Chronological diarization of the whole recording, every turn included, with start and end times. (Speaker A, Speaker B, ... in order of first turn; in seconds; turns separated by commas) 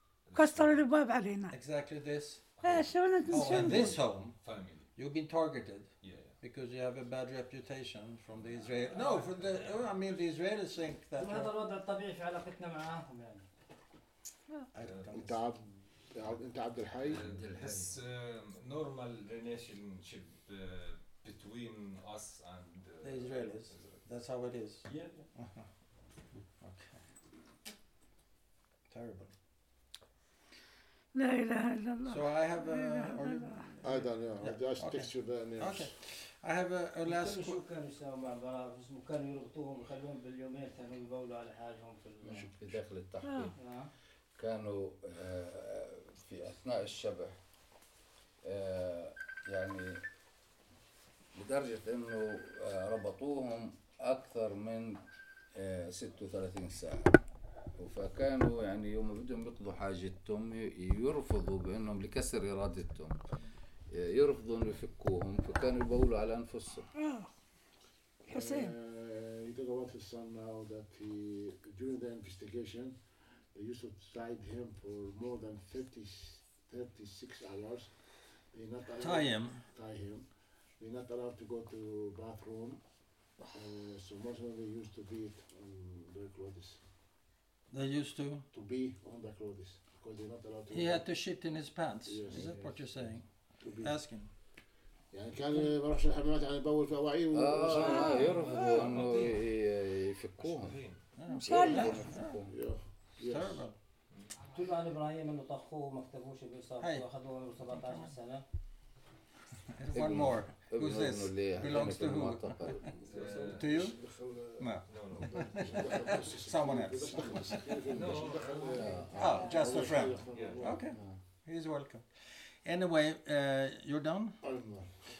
Speaker A: 0.3-0.8, Speaker B: 0.3-1.6, Speaker C: 1.5-2.5, Speaker A: 2.6-4.9, Speaker B: 2.6-4.0, Speaker C: 3.3-4.4, Speaker C: 5.0-11.5, Speaker A: 6.0-6.4, Speaker A: 8.7-9.6, Speaker D: 11.2-13.5, Speaker C: 14.7-15.4, Speaker A: 14.8-15.2, Speaker E: 15.1-17.3, Speaker A: 17.0-24.0, Speaker F: 17.2-17.9, Speaker C: 23.0-25.7, Speaker A: 24.9-25.3, Speaker C: 26.6-27.0, Speaker C: 28.9-29.3, Speaker B: 31.1-33.6, Speaker C: 32.0-37.6, Speaker E: 33.8-35.9, Speaker D: 37.1-42.5, Speaker F: 42.2-43.6, Speaker B: 43.3-43.5, Speaker D: 43.6-43.9, Speaker F: 44.4-47.4, Speaker F: 48.4-50.0, Speaker F: 51.4-57.2, Speaker F: 57.8-63.2, Speaker F: 63.9-66.9, Speaker B: 67.0-67.3, Speaker E: 68.3-73.0, Speaker B: 68.3-68.7, Speaker E: 73.5-77.9, Speaker E: 78.5-80.2, Speaker C: 79.0-79.6, Speaker E: 80.8-82.8, Speaker E: 83.5-86.8, Speaker C: 87.7-88.5, Speaker E: 88.5-91.0, Speaker C: 90.7-94.3, Speaker E: 92.1-94.0, Speaker E: 95.1-98.4, Speaker F: 97.3-100.8, Speaker B: 97.8-99.0, Speaker A: 98.0-99.4, Speaker A: 100.4-101.1, Speaker C: 101.2-102.4, Speaker B: 101.3-102.0, Speaker F: 101.5-102.5, Speaker E: 101.5-103.6, Speaker C: 103.2-103.8, Speaker D: 104.5-108.5, Speaker C: 107.7-108.1, Speaker C: 109.7-112.8, Speaker F: 109.9-113.0, Speaker A: 113.0-113.9, Speaker E: 113.1-120.9, Speaker C: 113.5-114.0, Speaker C: 114.6-117.9, Speaker A: 114.9-116.1, Speaker A: 117.8-118.9, Speaker F: 118.7-119.2, Speaker C: 119.1-124.4, Speaker A: 120.3-120.6, Speaker E: 124.4-125.0